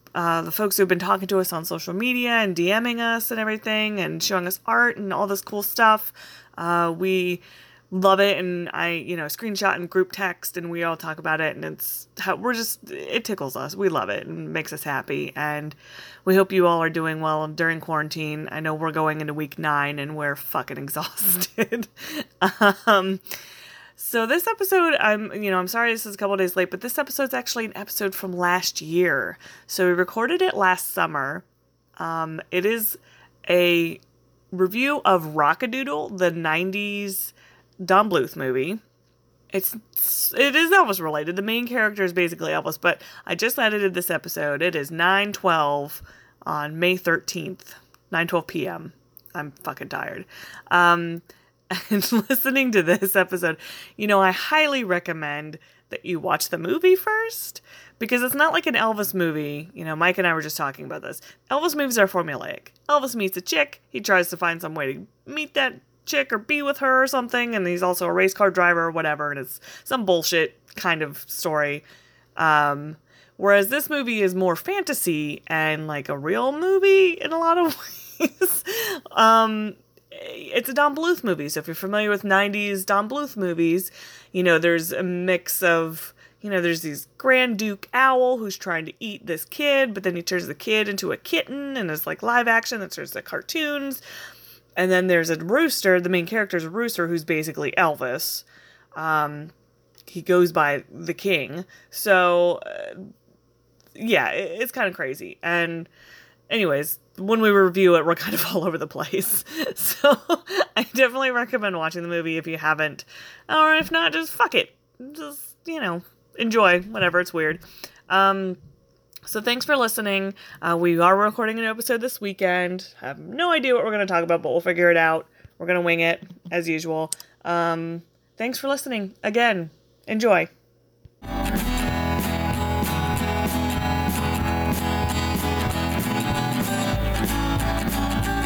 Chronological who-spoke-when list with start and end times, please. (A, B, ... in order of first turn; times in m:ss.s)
0:00.1-0:23.2 A
0:24.0-0:31.4 A
0:32.0-0:34.0 A
0:34.5-0:38.8 A
0:39.5-1:11.8 A
1:12.4-1:34.0 A
1:34.8-1:39.5 A
1:40.1-1:43.1 A
1:44.0-1:45.9 A
1:46.5-1:58.6 A
1:59.2-2:10.5 A